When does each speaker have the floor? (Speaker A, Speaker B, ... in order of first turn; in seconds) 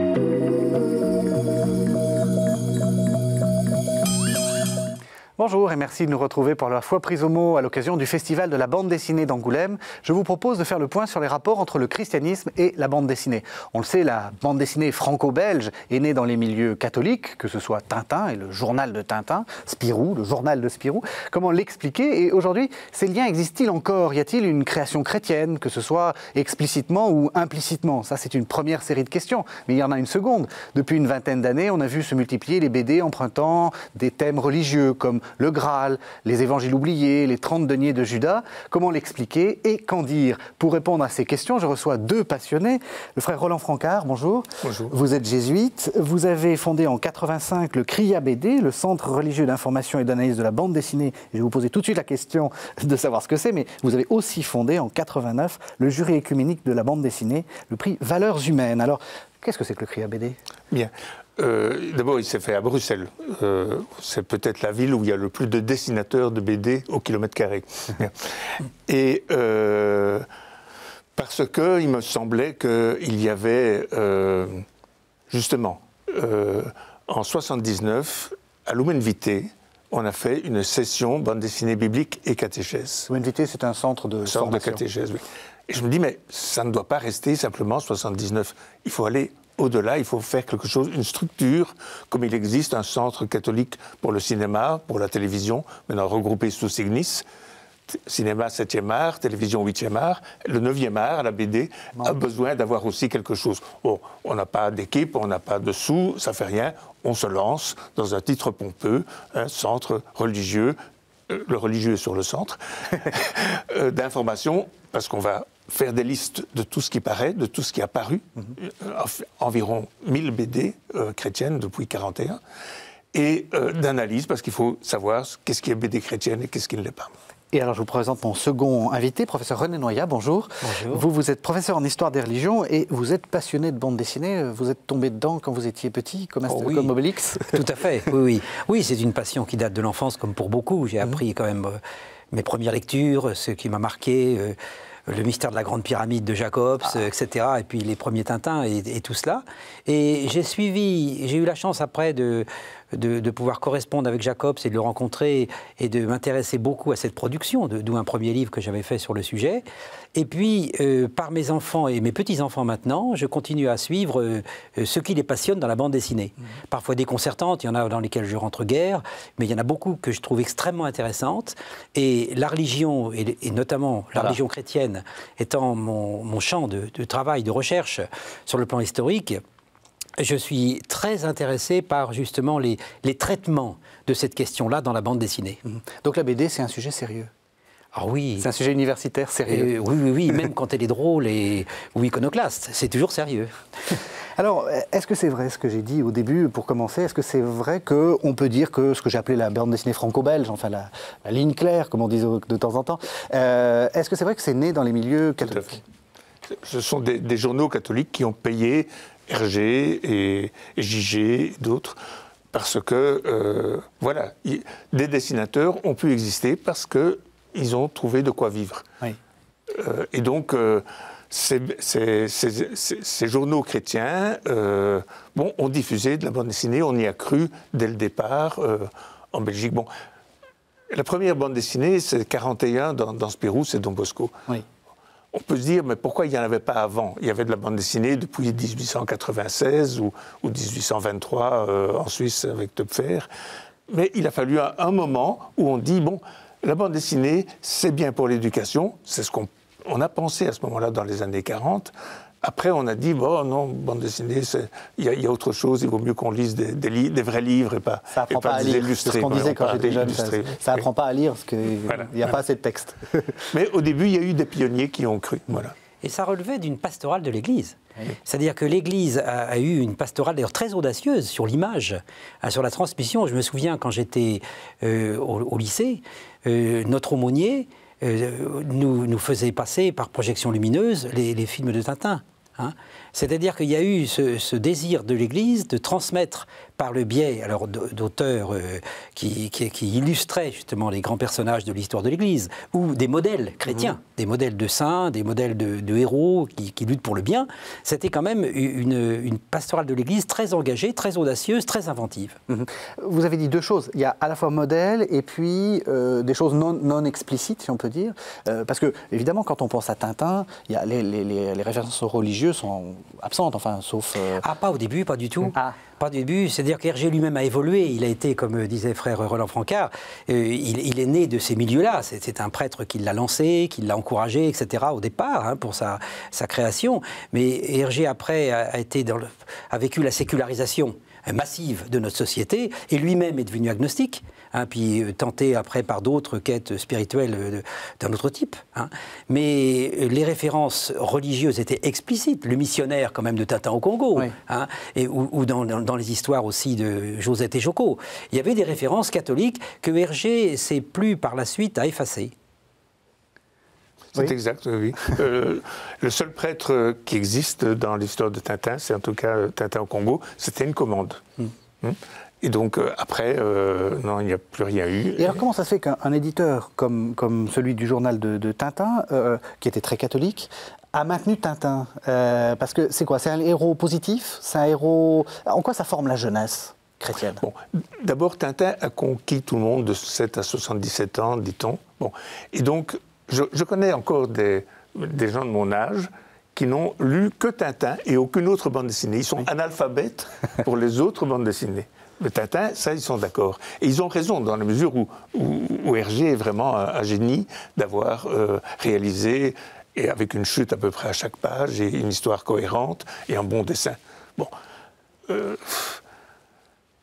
Speaker A: 5.4-60.4, 83.1-84.8, 127.5-137.6, 185.7-187.3, 188.4-189.7, 194.4-205.8, 258.1-263.5, 302.5-314.4, 365.2-377.4
Speaker B: 44.6-44.9, 60.7-70.3, 71.2-74.7, 75.3-83.1, 84.2-97.3, 97.9-110.8, 111.3-122.4, 123.1-127.1, 136.5-136.8, 205.4-205.8, 206.5-212.0, 212.5-218.9, 219.7-229.9, 230.9-234.4, 235.3-243.3, 243.9-260.9, 261.9-262.3, 263.5-265.8, 354.1-365.4, 377.4-404.5, 405.3-406.0
Speaker C: 130.6-131.1, 137.5-141.8, 142.3-144.6, 145.1-179.4, 180.2-185.6, 187.9-188.5, 189.5-194.0, 266.0-302.4, 314.4-352.3